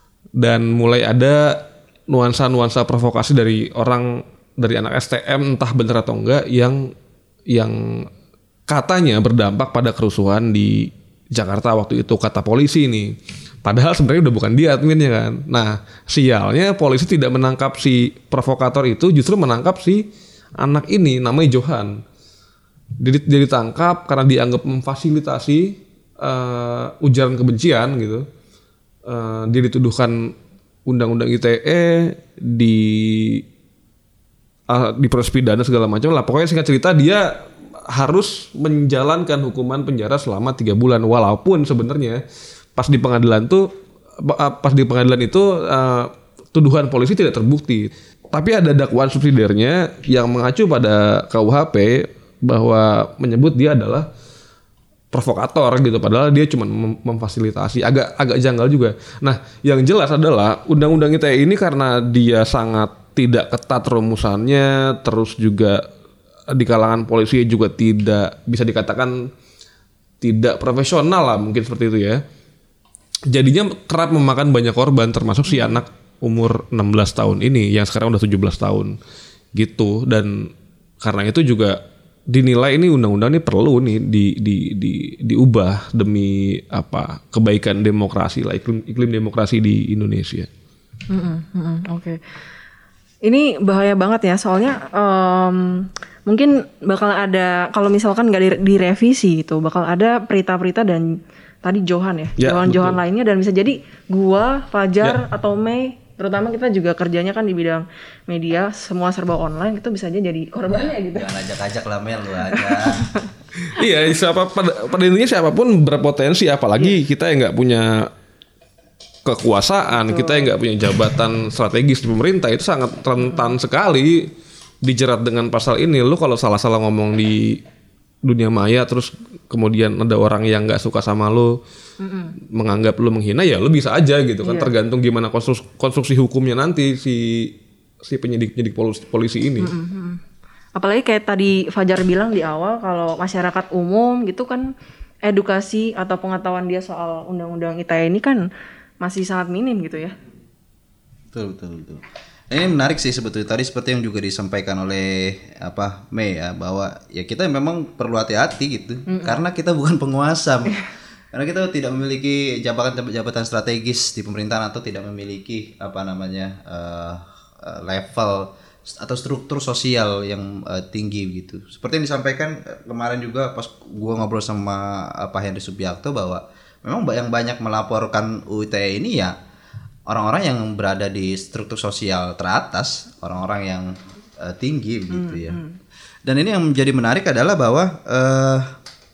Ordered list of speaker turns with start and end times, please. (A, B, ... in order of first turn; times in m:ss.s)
0:00.4-0:06.8 A
0:08.7-0:10.7 A
0:11.4-0:13.1 A
0:13.6-0:20.1 A
0:20.6-0:22.0 A
0:23.0-0:28.2 A
0:29.1-0:30.2 A
0:30.9-0:33.4 A
0:34.7-0:37.3 A
0:37.9-0:42.2 A
0:42.8-0:43.7 A
0:44.2-0:54.1 A
0:55.1-1:05.8 A
1:06.5-1:09.2 A
1:10.2-1:12.2 A
1:13.3-1:18.9 A
1:15.5-1:15.8 B
1:19.6-1:20.3 A
1:21.0-1:21.8 A
1:22.3-1:30.5 A
1:31.1-1:32.2 B
1:33.2-1:41.0 B
1:41.6-1:51.3 B
1:42.4-1:43.0 A
1:50.7-1:53.1 C
1:52.6-1:53.2 B
1:53.6-1:58.1 A
1:59.2-2:04.2 A
2:00.0-2:00.5 B
2:03.3-2:03.5 B
2:04.8-2:07.6 A
2:08.2-2:11.5 A
2:12.0-2:12.3 B
2:12.5-2:19.7 A
2:14.4-2:14.7 B
2:19.6-2:20.2 B
2:20.8-2:24.6 B
2:25.2-2:28.4 B
2:29.0-2:30.2 B
2:31.3-2:59.4 C
2:39.1-2:39.4 B
3:00.1-3:05.6 C
3:05.1-3:05.8 B
3:06.3-3:08.6 C